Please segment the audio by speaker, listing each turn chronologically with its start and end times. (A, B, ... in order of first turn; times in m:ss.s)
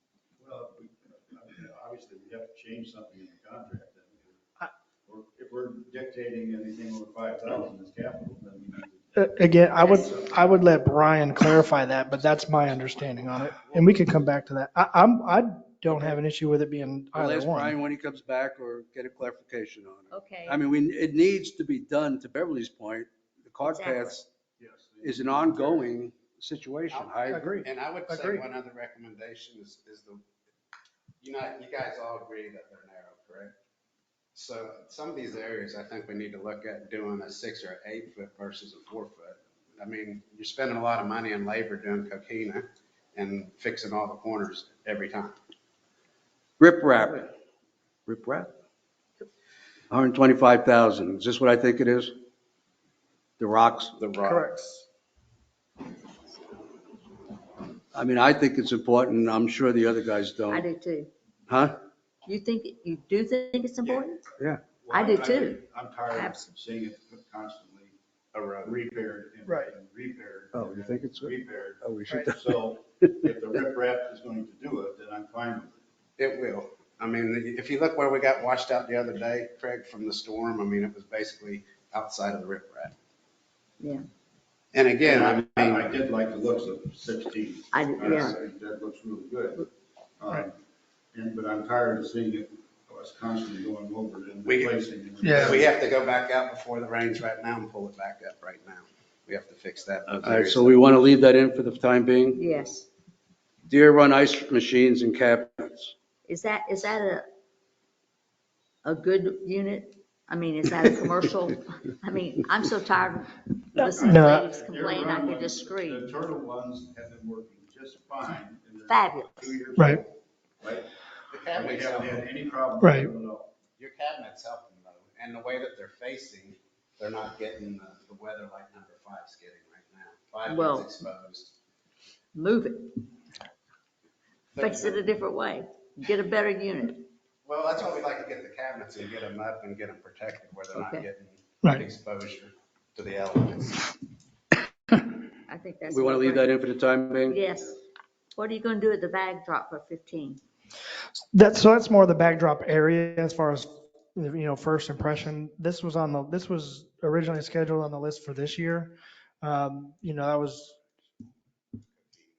0:00.4-0:04.4 A
0:05.1-0:10.5 A
0:09.2-0:17.8 B
0:09.8-0:10.1 C
0:15.9-0:16.2 D
0:17.1-0:24.3 D
0:20.1-0:20.6 C
0:23.6-0:24.2 C
0:24.6-0:25.9 A
0:25.0-0:27.6 D
0:26.9-0:30.2 E
0:27.3-0:28.4 B
0:31.2-0:33.5 E
0:34.3-0:45.3 E
0:46.6-0:47.3 D
0:48.1-0:48.5 D
0:49.9-0:52.1 D
0:53.4-0:53.9 D
0:54.0-0:54.6 E
0:54.2-0:54.8 B
0:57.9-1:00.7 D
1:00.5-1:01.1 C
1:01.5-1:01.8 D
1:02.2-1:04.2 C
1:04.4-1:04.7 D
1:04.8-1:07.9 A
1:04.9-1:06.5 C
1:08.3-1:08.8 E
1:08.6-1:15.8 A
1:10.5-1:13.1 D
1:16.2-1:22.9 E
1:24.7-1:25.9 E
1:25.0-1:30.6 A
1:27.7-1:28.4 C
1:31.1-1:35.7 A
1:34.4-1:34.7 E
1:35.2-1:35.6 B
1:35.3-1:40.8 E
1:40.1-1:42.4 D
1:42.3-1:42.9 C
1:43.7-1:45.9 D
1:46.3-1:47.2 C
1:48.8-1:56.1 C
1:53.8-2:00.9 A
1:54.1-1:54.4 B
1:58.9-1:59.6 C
1:59.8-2:00.0 B
2:01.3-2:02.3 E
2:01.5-2:03.5 A
2:02.8-2:03.1 B
2:03.8-2:11.6 E
2:10.4-2:11.0 C
2:12.3-2:13.0 C
2:14.5-2:15.1 E
2:14.6-2:17.0 C
2:17.4-2:23.9 E
2:20.8-2:21.0 C
2:25.5-2:26.6 C
2:25.9-2:27.4 D
2:27.2-2:27.8 C
2:28.3-2:30.4 C
2:31.3-2:40.8 B